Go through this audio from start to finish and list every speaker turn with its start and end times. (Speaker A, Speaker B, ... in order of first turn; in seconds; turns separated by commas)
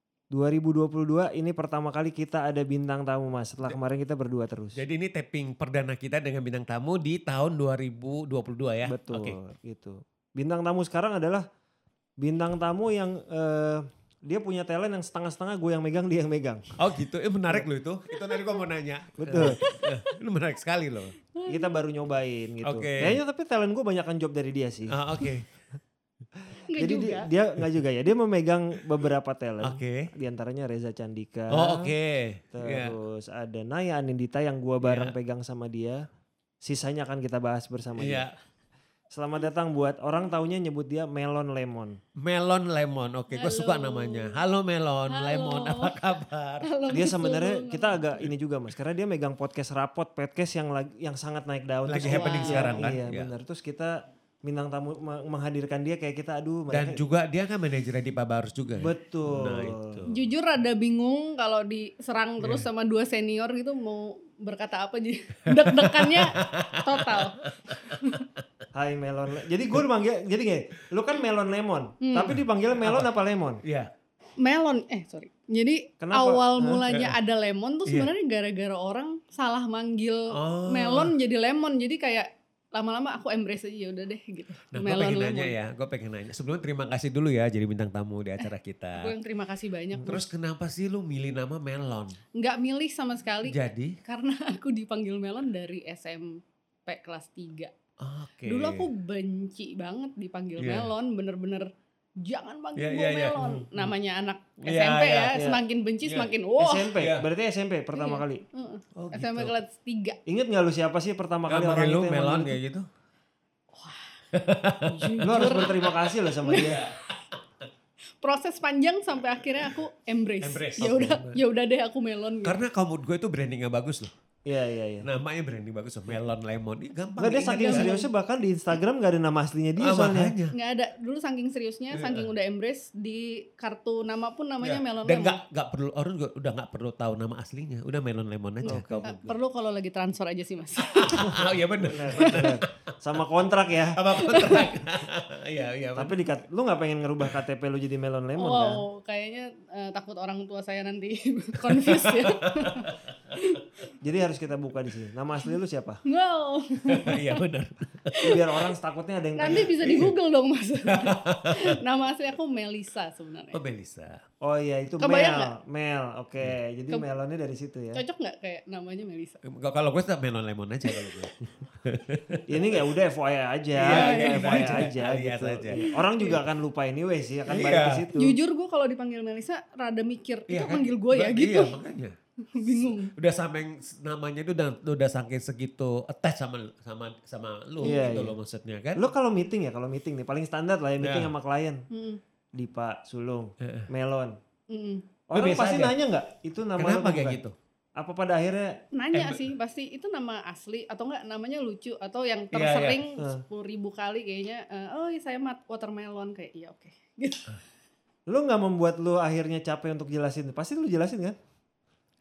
Speaker A: 0.3-4.8, Speaker B: 4.8-9.4, Speaker A: 8.8-11.5, Speaker A: 12.2-17.0, Speaker B: 16.8-21.2, Speaker C: 18.1-18.4, Speaker A: 19.2-19.6, Speaker C: 19.4-20.1, Speaker C: 21.3-21.7, Speaker A: 21.5-25.0, Speaker B: 22.6-23.2, Speaker B: 24.9-25.6, Speaker A: 26.4-31.9, Speaker C: 26.7-27.3, Speaker B: 29.6-30.1, Speaker B: 31.5-33.0, Speaker A: 32.5-36.0, Speaker B: 34.8-35.1, Speaker A: 36.6-38.3, Speaker B: 38.0-38.3, Speaker A: 39.1-42.0, Speaker B: 42.2-46.7, Speaker C: 43.3-44.4, Speaker C: 45.1-46.1, Speaker C: 46.6-48.0, Speaker A: 46.9-57.0, Speaker B: 51.9-53.3, Speaker C: 52.0-52.8, Speaker B: 56.7-60.1, Speaker A: 58.8-60.0, Speaker C: 60.1-68.3, Speaker B: 65.5-68.2, Speaker A: 68.7-73.6, Speaker C: 72.0-72.4, Speaker B: 72.8-73.1, Speaker B: 73.6-73.9, Speaker C: 74.4-85.5, Speaker A: 76.0-76.8, Speaker B: 80.3-81.2, Speaker B: 84.7-89.1, Speaker C: 88.4-90.2, Speaker B: 90.1-92.2, Speaker C: 92.4-97.7, Speaker B: 93.5-94.0, Speaker B: 98.0-98.9, Speaker C: 98.5-107.0, Speaker B: 100.6-100.9, Speaker B: 102.8-103.9, Speaker B: 104.6-105.4, Speaker A: 105.3-105.6, Speaker B: 106.0-106.3, Speaker A: 106.6-108.4, Speaker B: 107.0-107.3, Speaker C: 107.9-110.2, Speaker B: 109.0-109.5, Speaker A: 110.3-112.6, Speaker B: 111.5-112.9, Speaker C: 113.7-117.0, Speaker B: 114.3-117.4, Speaker A: 115.2-116.8, Speaker C: 118.2-122.6, Speaker B: 120.4-121.4, Speaker B: 122.4-124.1, Speaker A: 124.5-125.1, Speaker B: 125.0-128.0, Speaker A: 127.2-130.3, Speaker C: 127.6-128.0, Speaker B: 129.8-130.6, Speaker C: 130.5-135.4, Speaker B: 131.9-132.3, Speaker B: 134.6-139.4, Speaker C: 138.6-141.5, Speaker B: 140.8-143.3, Speaker A: 141.3-144.0, Speaker C: 142.1-142.6, Speaker B: 143.8-146.3, Speaker C: 144.2-144.7, Speaker A: 145.9-148.8, Speaker C: 148.4-153.9, Speaker B: 151.7-152.9, Speaker A: 154.0-156.0, Speaker C: 156.1-157.4, Speaker B: 156.9-158.4, Speaker C: 158.1-158.4, Speaker A: 158.2-160.1, Speaker C: 159.4-163.6, Speaker B: 159.5-160.1, Speaker B: 160.9-161.8, Speaker B: 163.5-164.2, Speaker A: 164.4-168.0, Speaker C: 165.0-165.5, Speaker C: 167.9-169.4, Speaker B: 169.4-172.4, Speaker C: 170.9-171.2, Speaker A: 172.5-178.4, Speaker B: 173.8-175.9, Speaker C: 173.8-174.9, Speaker C: 175.7-176.4, Speaker B: 177.5-178.1, Speaker C: 178.2-181.8, Speaker B: 180.5-189.1, Speaker C: 182.4-183.1, Speaker A: 187.8-188.4, Speaker C: 187.8-188.2, Speaker A: 189.0-191.8, Speaker B: 191.0-191.3, Speaker C: 191.9-192.2, Speaker A: 192.6-194.4, Speaker B: 193.6-193.9, Speaker C: 194.7-195.1, Speaker A: 195.3-197.4, Speaker B: 195.3-196.0, Speaker B: 196.8-197.5, Speaker A: 198.0-198.8, Speaker C: 198.9-207.6, Speaker B: 199.1-199.5, Speaker B: 202.5-203.0, Speaker A: 203.2-203.4, Speaker A: 208.3-211.4